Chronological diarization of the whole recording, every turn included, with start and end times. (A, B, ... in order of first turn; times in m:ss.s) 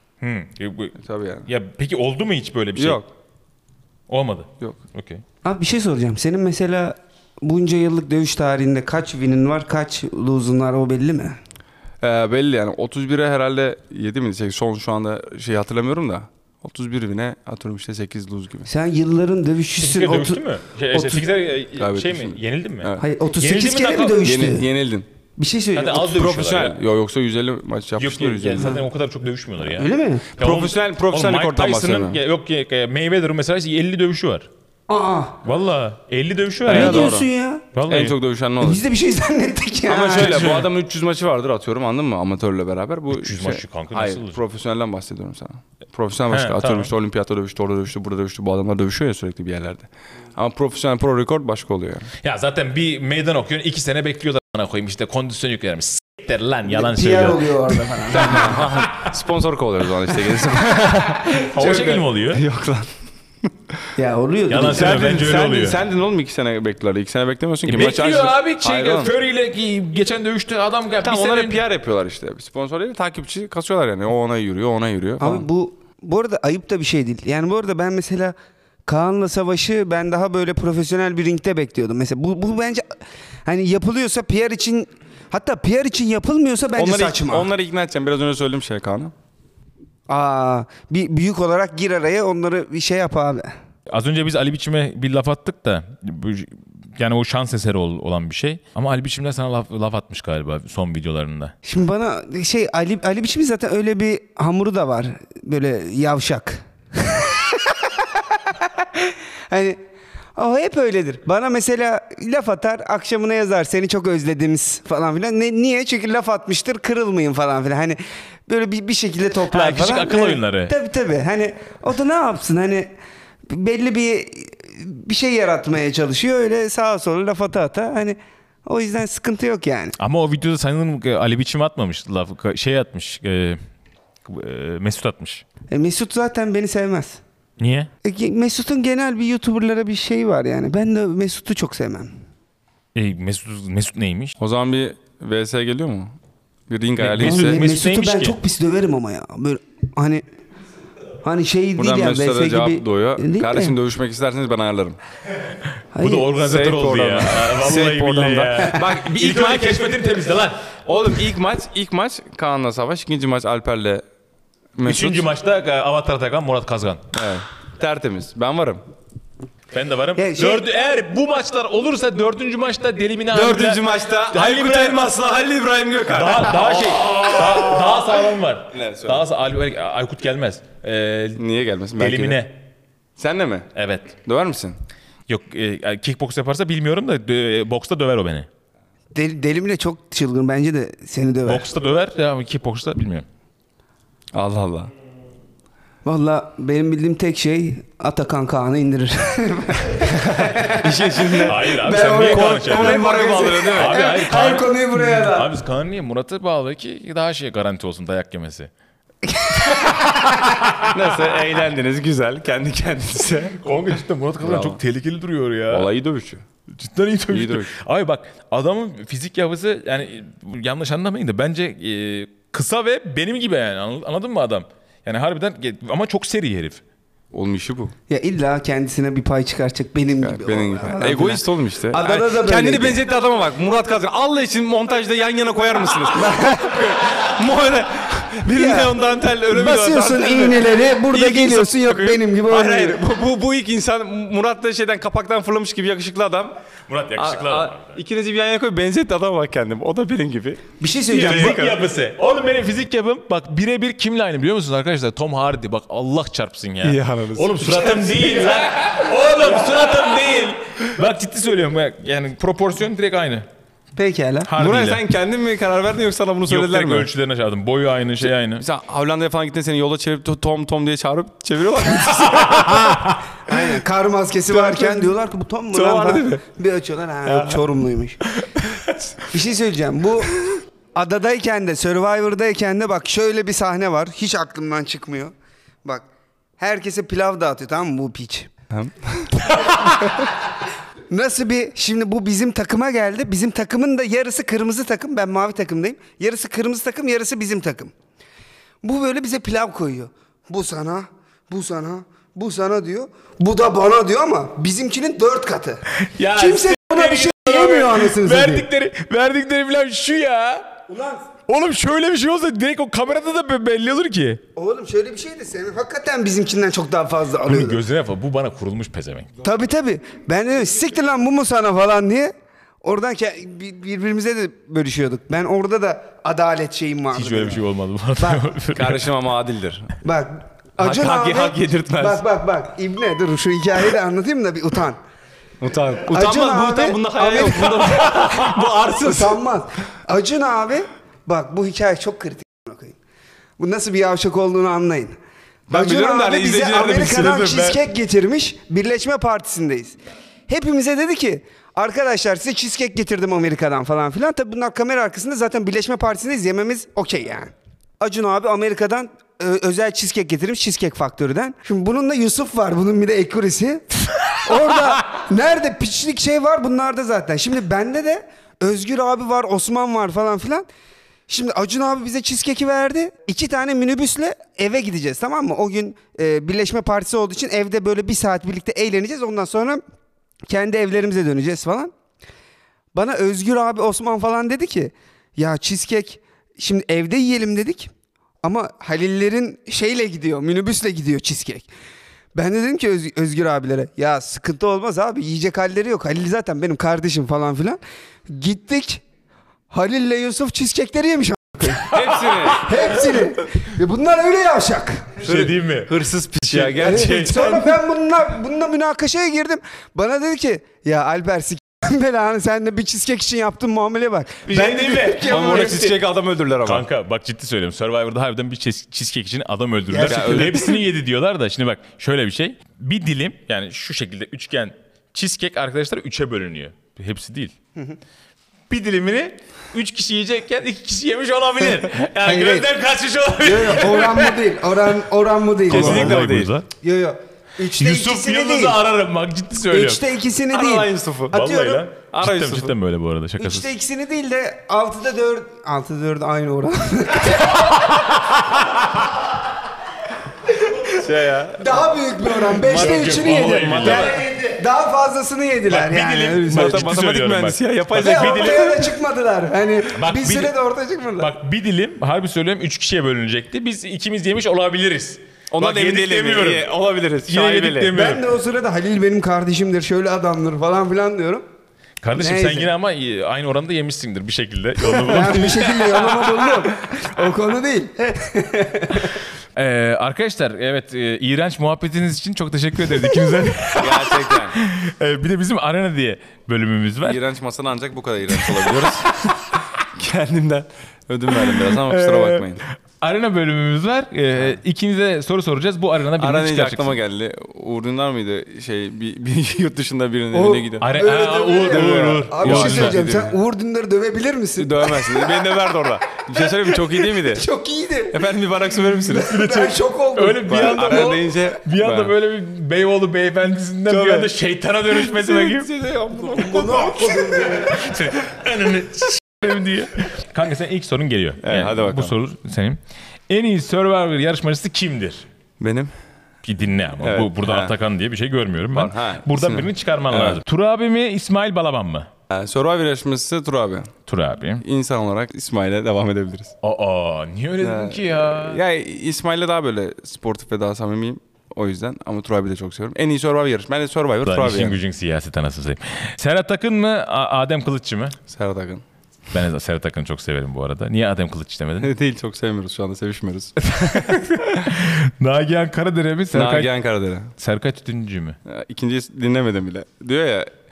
0:00.2-0:00.9 A
0:01.0-0:01.5 B
0:01.4-0:03.0 A
0:02.8-0:03.1 B
0:04.1-0:05.2 A
0:05.4-0:11.4 C
0:12.0-0:18.7 B
0:18.7-0:21.3 C
0:19.8-0:24.2 A
0:21.8-0:23.0 B
0:23.0-0:24.7 C
0:24.2-0:25.1 B
0:25.4-0:26.1 C
0:25.7-0:26.8 A
0:26.0-0:28.8 B
0:28.0-0:34.5 A
0:29.7-0:30.3 C
0:30.4-0:32.2 B
0:34.9-0:35.4 C
0:35.4-0:37.2 A
0:36.7-0:37.6 C
0:36.7-0:37.3 B
0:37.7-0:38.2 A
0:37.8-0:38.8 B
0:38.6-0:40.5 C
0:39.8-0:52.1 B
0:40.1-0:40.7 A
0:43.1-0:44.4 A
0:46.3-0:46.9 A
0:52.2-0:59.0 A
0:56.7-0:58.6 C
0:58.1-1:02.9 B
1:01.5-1:02.4 A
1:04.0-1:05.1 C
1:04.5-1:05.8 A
1:04.7-1:09.1 B
1:07.6-1:11.6 A
1:11.0-1:15.4 B
1:15.2-1:18.3 C
1:18.9-1:22.8 C
1:23.4-1:27.5 C
1:26.8-1:29.1 B
1:30.1-1:33.5 C
1:33.9-1:41.5 A
1:41.6-1:47.9 C
1:48.6-1:49.8 C
1:50.4-2:02.9 C
1:59.5-2:00.7 A
2:03.5-2:09.9 C
2:10.0-2:13.6 A
2:14.2-2:15.4 A
2:15.7-2:17.2 C
2:17.6-2:17.9 A
2:18.0-2:22.1 C
2:22.9-2:24.3 A
2:24.4-2:26.2 B
2:26.7-2:27.6 B
2:27.0-2:28.4 A
2:27.2-2:30.2 C
2:31.2-2:33.7 C
2:31.8-2:35.0 B
2:35.9-2:36.3 C
2:36.0-2:40.6 A
2:36.4-2:40.1 B
2:40.8-2:44.0 B
2:44.8-2:45.2 B
2:44.8-2:47.1 A
2:47.1-2:48.8 B
2:49.7-2:55.1 A
2:50.2-2:50.6 C
2:53.3-2:58.1 B
2:56.1-3:01.4 A
2:58.7-2:59.2 B
3:01.4-3:02.4 B
3:02.0-3:02.6 A
3:03.2-3:03.7 B
3:03.7-3:04.2 A
3:04.2-3:04.8 B
3:05.3-3:08.5 A
3:09.1-3:11.6 C
3:11.4-3:13.2 A
3:14.3-3:14.9 B
3:16.0-3:25.5 C
3:20.0-3:24.0 B
3:21.5-3:28.7 A
3:29.2-3:30.5 C
3:30.4-3:30.9 A
3:30.8-3:33.6 B
3:33.6-3:35.9 A
3:34.4-3:34.8 B
3:35.7-3:36.4 B
3:36.7-3:46.8 A
3:37.3-3:37.8 B
3:47.3-3:47.9 B
3:48.1-3:53.0 C
3:50.2-4:06.5 B
3:56.1-3:56.9 C
3:58.5-4:03.0 C
4:06.9-4:08.0 A
4:07.1-4:11.8 B
4:10.8-4:11.7 C
4:11.1-4:23.5 A
4:16.8-4:18.3 B
4:24.0-4:24.5 C
4:24.4-4:25.0 A
4:24.6-4:27.1 B
4:26.5-4:28.6 A
4:28.2-4:33.0 B
4:32.4-4:33.2 A
4:33.4-4:38.2 C
4:34.5-4:35.1 B
4:35.7-4:36.4 B
4:37.3-4:37.6 B
4:39.3-4:45.3 C
4:46.6-4:48.5 C
4:48.7-4:50.2 B
4:51.1-4:57.9 C
4:58.8-5:08.6 C
5:06.0-5:10.8 A
5:10.9-5:11.2 C
5:11.5-5:14.4 A
5:14.6-5:17.8 C
5:17.4-5:19.3 A
5:19.4-5:22.3 C
5:22.8-5:27.6 C
5:27.1-5:29.1 A
5:28.2-5:28.5 C
5:28.7-5:29.9 B
5:30.0-5:35.0 C
5:30.8-5:32.2 B
5:35.6-5:39.4 B
5:36.1-5:38.1 C
5:39.0-5:42.9 C
5:43.6-5:45.2 C
5:45.7-5:47.8 B
5:45.7-5:50.0 C
5:50.5-6:10.7 C
6:11.3-6:19.8 C
6:20.5-6:21.9 C
6:22.9-6:27.9 C
6:28.4-6:31.7 C
6:32.3-6:39.0 C
6:39.7-6:41.9 C
6:41.8-6:42.7 B
6:41.9-6:43.2 A
6:42.5-6:45.2 C
6:45.2-6:47.8 B
6:45.2-6:47.0 A
6:46.8-6:55.9 C
6:54.5-6:56.0 A
6:54.5-6:56.8 B
6:56.6-7:07.5 A
6:59.9-7:00.6 C
7:00.0-7:00.7 B
7:08.7-7:14.4 A
7:12.2-7:12.7 C
7:13.4-7:16.3 C
7:15.7-7:16.7 A
7:15.7-7:16.5 B
7:16.8-7:18.8 C
7:17.7-7:20.0 A
7:19.7-7:21.8 C
7:20.5-7:21.4 B
7:21.3-7:23.7 A
7:22.1-7:22.7 B
7:23.4-7:28.0 C
7:27.9-7:28.6 A
7:30.6-7:30.9 C
7:30.9-7:31.7 B
7:31.6-7:36.8 C
7:32.6-7:34.2 B
7:32.6-7:34.4 A
7:35.7-7:38.8 A
7:36.4-7:38.8 B
7:37.9-7:41.3 C
7:39.9-7:40.5 A
7:41.2-7:46.7 A
7:45.5-7:47.9 B
7:47.3-7:48.2 A
7:47.9-7:51.4 C
7:52.0-7:56.2 A
7:52.2-7:52.7 C
7:54.9-7:59.2 C
7:59.5-8:07.2 A
8:03.8-8:04.6 B
8:07.0-8:09.3 B
8:08.4-8:09.3 A
8:09.9-8:12.6 B
8:11.4-8:17.0 A
8:16.2-8:21.0 B
8:20.3-8:25.5 C
8:20.8-8:23.0 A
8:21.6-8:23.4 B
8:24.6-8:27.4 B
8:26.7-8:28.3 C
8:28.1-8:29.5 B
8:29.0-8:31.2 C
8:29.2-8:35.7 A
8:30.5-8:32.1 B
8:33.9-8:34.3 B
8:34.9-8:37.4 B
8:36.3-8:37.9 C
8:37.5-8:45.3 A
8:41.4-8:42.2 B
8:45.6-8:45.9 B
8:46.4-8:52.1 A
8:47.0-8:47.8 B
8:48.7-8:50.4 B
8:52.3-8:53.9 B
8:54.1-8:54.6 A
8:54.6-8:56.6 B
8:56.6-8:58.6 A
8:57.6-9:04.8 B
9:04.2-9:08.2 A
9:08.3-9:08.8 B
9:09.3-9:11.9 A
9:11.8-9:14.2 B
9:13.7-9:16.7 A
9:16.3-9:17.3 B
9:17.4-9:18.4 A
9:18.4-9:20.5 B